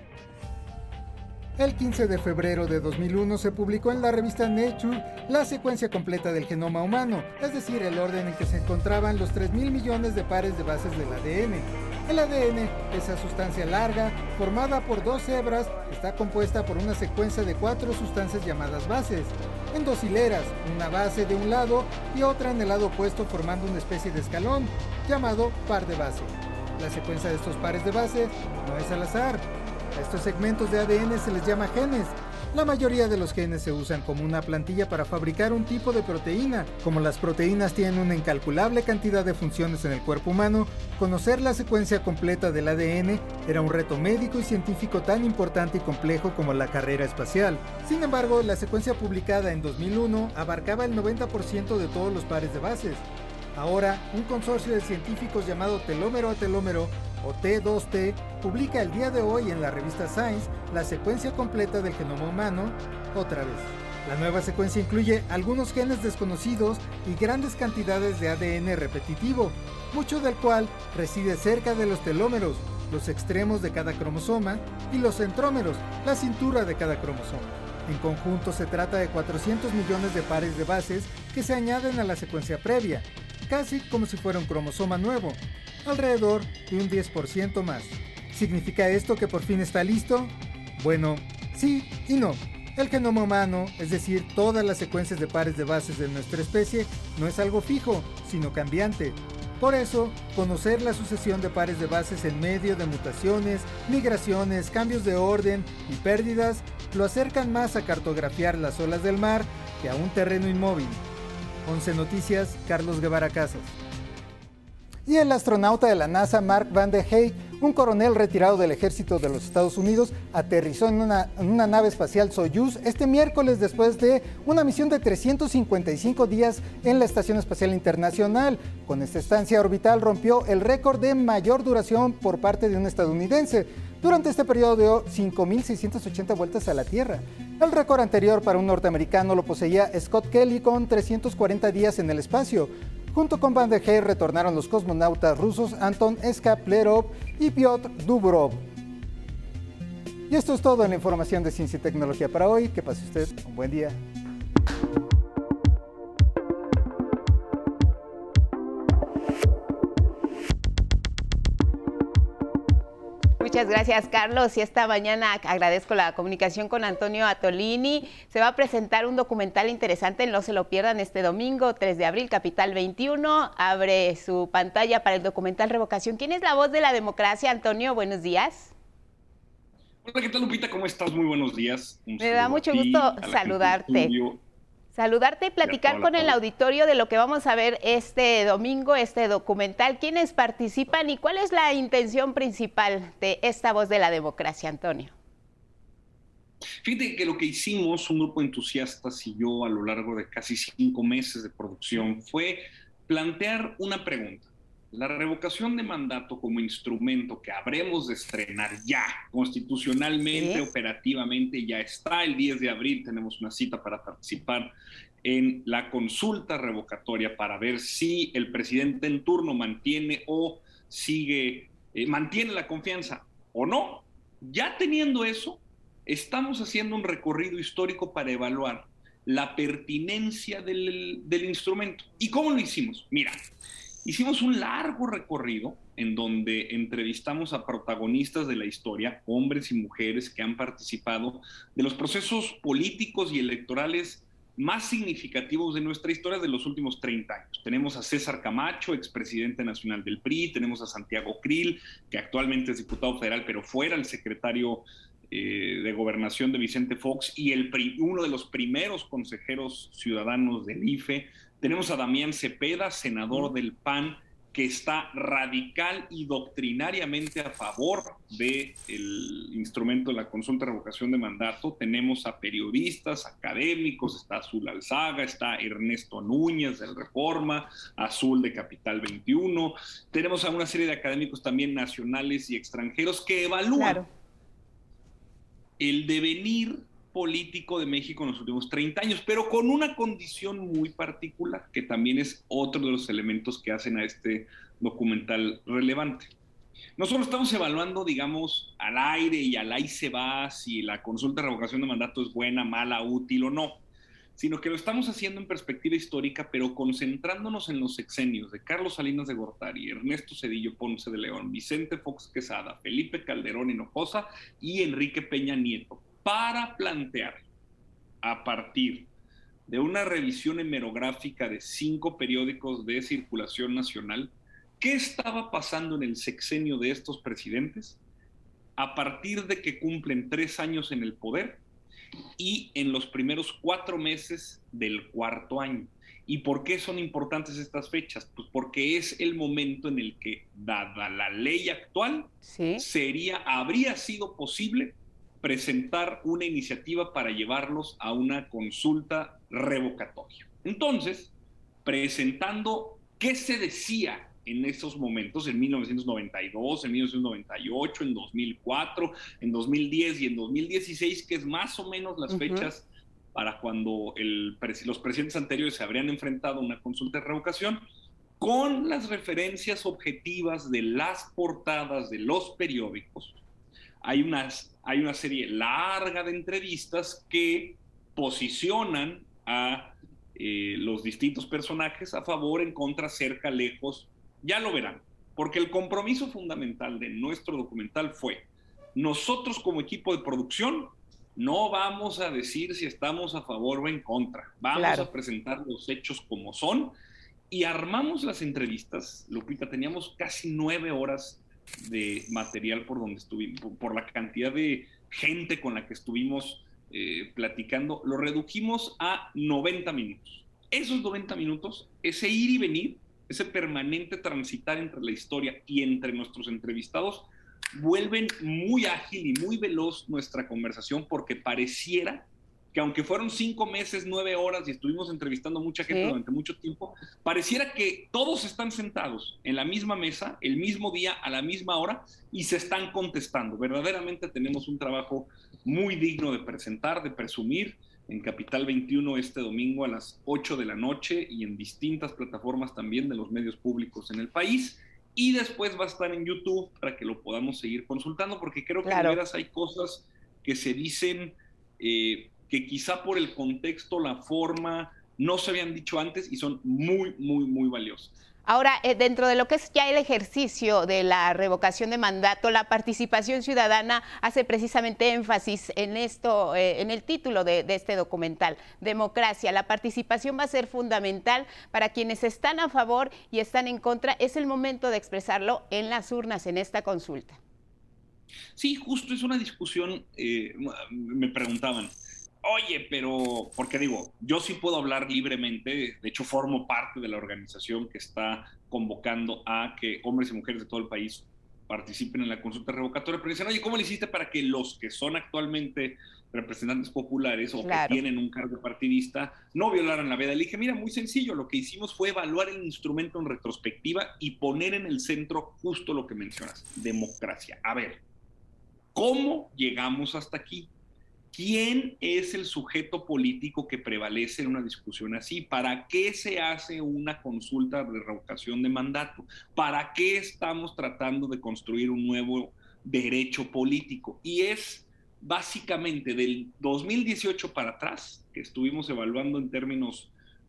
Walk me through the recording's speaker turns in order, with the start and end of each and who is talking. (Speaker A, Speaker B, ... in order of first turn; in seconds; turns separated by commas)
Speaker A: 1.6-111.0, Speaker A: 111.6-113.7, Speaker A: 115.1-148.6, Speaker A: 150.3-154.0, Speaker B: 163.4-178.7, Speaker C: 180.1-184.4, Speaker B: 182.2-184.1, Speaker B: 184.9-195.1, Speaker C: 185.6-186.4, Speaker C: 196.8-214.7, Speaker B: 210.3-210.7, Speaker C: 215.2-233.4, Speaker C: 234.1-284.0, Speaker B: 283.8-284.1, Speaker C: 285.8-296.3, Speaker C: 297.0-303.8, Speaker C: 304.4-317.5, Speaker C: 318.2-319.1, Speaker C: 319.7-328.0, Speaker C: 328.8-331.6, Speaker C: 332.4-351.3, Speaker B: 342.4-342.9, Speaker C: 351.9-367.9, Speaker B: 362.3-362.7, Speaker C: 368.4-373.4, Speaker C: 374.0-396.9, Speaker B: 394.7-395.1, Speaker C: 397.5-458.1, Speaker B: 425.9-426.2, Speaker B: 448.9-449.2, Speaker B: 458.5-477.4, Speaker C: 478.6-508.0, Speaker B: 497.6-498.0, Speaker C: 508.9-510.7, Speaker C: 511.3-530.1